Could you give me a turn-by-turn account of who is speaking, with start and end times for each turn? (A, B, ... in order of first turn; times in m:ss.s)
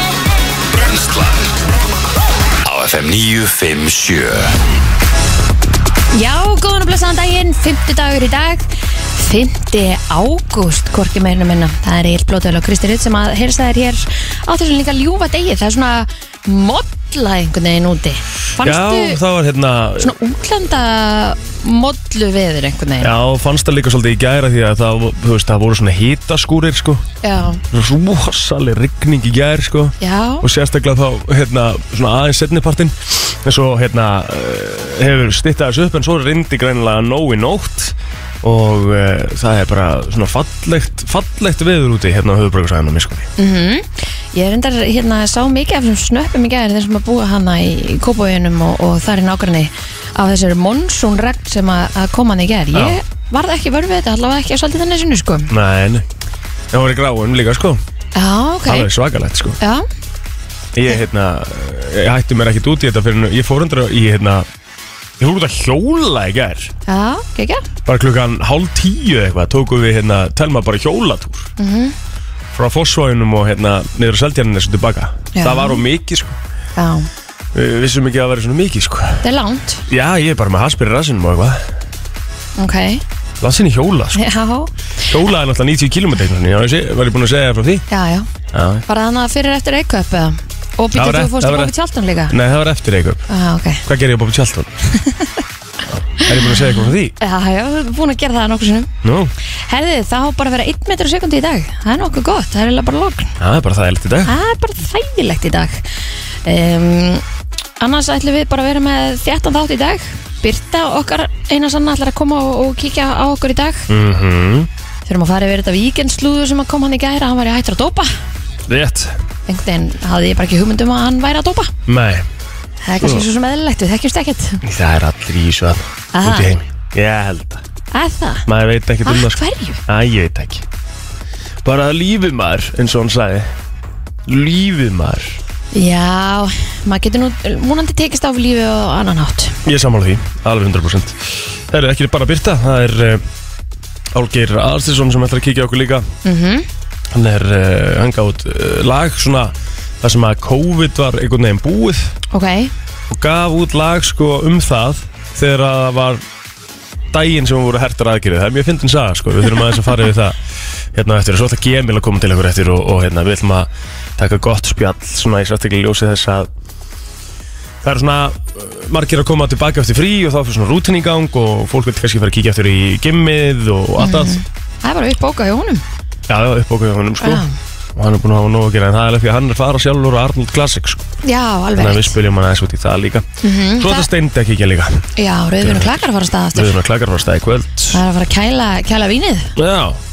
0:00.7-0:01.6 A
0:02.6-0:04.5 A
0:06.1-0:19.2 B
0:18.6-0:20.1 C
0:20.0-0:23.1 B
0:23.0-0:27.0 C
0:27.2-0:27.6 B
0:27.7-0:43.3 C
0:30.0-0:30.4 B
0:43.4-0:55.5 B
0:52.7-0:53.0 C
0:55.5-0:56.0 C
0:56.7-0:57.8 C
0:58.1-0:58.9 B
0:58.6-0:59.6 C
0:59.6-0:59.8 B
1:00.7-1:04.5 C
1:05.2-1:06.7 C
1:06.9-1:07.6 B
1:07.8-1:11.5 C
1:11.6-1:12.0 B
1:12.5-1:16.4 C
1:15.3-1:15.8 B
1:16.8-1:17.1 B
1:17.5-1:19.2 C
1:19.2-1:19.8 B
1:19.9-1:21.7 C
1:22.6-1:23.0 B
1:23.4-1:24.2 C
1:24.1-1:24.7 B
1:25.1-1:27.8 C
1:27.9-1:28.3 B
1:28.5-1:28.8 C
1:28.9-1:32.4 B
1:30.9-1:31.7 C
1:32.3-1:33.2 C
1:33.3-1:33.8 B
1:33.8-1:34.8 C
1:34.9-1:35.4 B
1:35.9-1:37.2 C
1:36.2-1:36.5 B
1:37.2-1:38.9 B
1:39.0-1:39.3 C
1:39.6-1:43.3 B
1:43.4-1:44.3 C
1:44.2-1:45.9 B
1:46.4-1:47.2 B
1:47.8-1:53.9 B
1:53.9-1:54.7 C
1:55.0-1:58.1 B
1:58.7-1:59.2 C
1:59.5-2:01.7 B
2:01.8-2:02.3 C
2:02.8-2:04.6 B
2:03.0-2:03.2 C
2:04.6-2:07.6 C
2:06.1-2:06.5 B
2:07.9-2:08.5 B
2:08.4-2:10.6 C
2:09.0-2:09.8 B
2:11.6-2:13.5 C
2:14.2-2:15.4 C
2:15.7-2:19.6 B
2:19.6-2:23.3 C
2:24.1-2:26.1 C
2:26.2-2:26.7 B
2:27.1-2:32.1 C
2:32.3-2:32.7 B
2:33.1-2:36.2 C
2:37.1-2:40.4 C
2:40.9-2:46.5 C
2:47.8-2:54.4 C
2:54.0-2:55.8 B
2:56.3-3:01.1 C
2:57.2-2:57.5 B
3:01.2-3:02.1 B
3:01.7-3:05.1 C
3:03.4-3:04.1 B
3:05.2-3:06.7 B
3:05.6-3:08.0 C
3:07.9-3:09.5 B
3:09.6-3:10.0 C